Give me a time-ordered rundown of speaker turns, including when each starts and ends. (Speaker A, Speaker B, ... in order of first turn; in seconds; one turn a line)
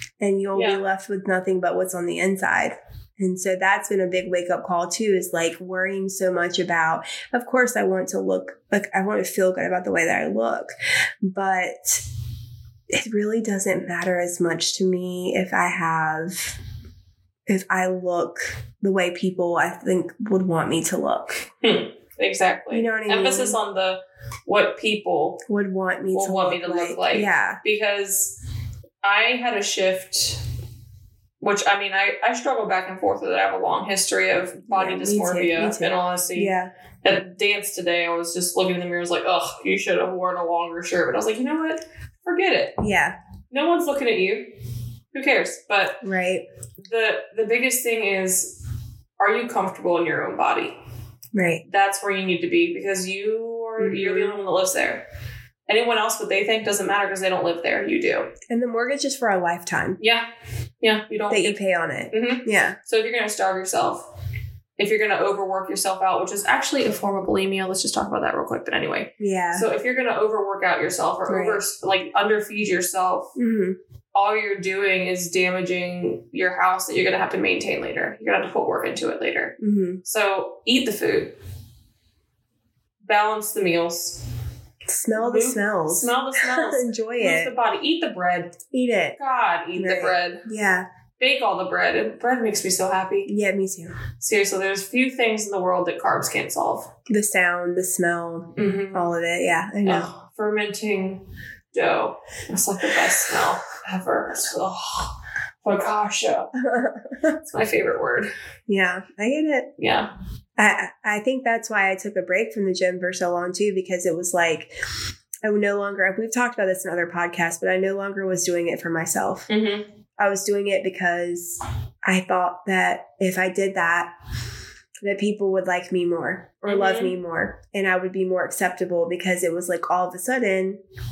Speaker A: 0.2-12.0
Speaker B: 0.5-0.8
Speaker A: 12.9-16.6
Speaker A: 17.5-21.4
Speaker B: 21.6-25.4
Speaker A: 22.7-23.6
Speaker A: 25.5-27.6
Speaker B: 26.1-28.4
Speaker B: 29.0-30.4
Speaker B: 31.4-42.8
Speaker A: 34.7-36.7
Speaker A: 42.8-43.2
Speaker B: 43.5-44.5
Speaker B: 45.1-46.0
Speaker A: 46.0-46.4
Speaker B: 46.8-48.6
Speaker B: 49.2-50.8
Speaker A: 51.3-51.6
Speaker B: 51.7-55.0
Speaker A: 53.8-54.4
Speaker B: 55.7-58.3
Speaker A: 58.5-60.0
Speaker B: 60.0-60.3
Speaker B: 60.8-61.5
Speaker A: 61.3-62.8
Speaker B: 62.1-64.0
Speaker B: 64.8-73.3
Speaker A: 69.2-69.7
Speaker A: 71.3-71.6
Speaker A: 73.4-73.8
Speaker B: 74.1-81.3
Speaker A: 79.6-80.0
Speaker B: 83.0-84.2
Speaker A: 84.9-87.5
Speaker B: 85.2-88.6
Speaker A: 88.7-89.2
Speaker B: 89.2-90.5
Speaker A: 89.8-90.9
Speaker B: 91.2-93.3
Speaker A: 93.3-94.0
Speaker B: 94.2-96.9
Speaker A: 97.1-100.1
Speaker B: 98.5-99.1
Speaker B: 99.8-106.5
Speaker A: 106.5-107.4
Speaker B: 107.4-108.3
Speaker A: 108.7-109.7
Speaker B: 109.8-110.1
Speaker A: 110.5-114.7
Speaker A: 115.4-119.5
Speaker B: 119.5-119.9
Speaker A: 120.2-124.1
Speaker A: 125.0-130.8
Speaker B: 126.7-127.1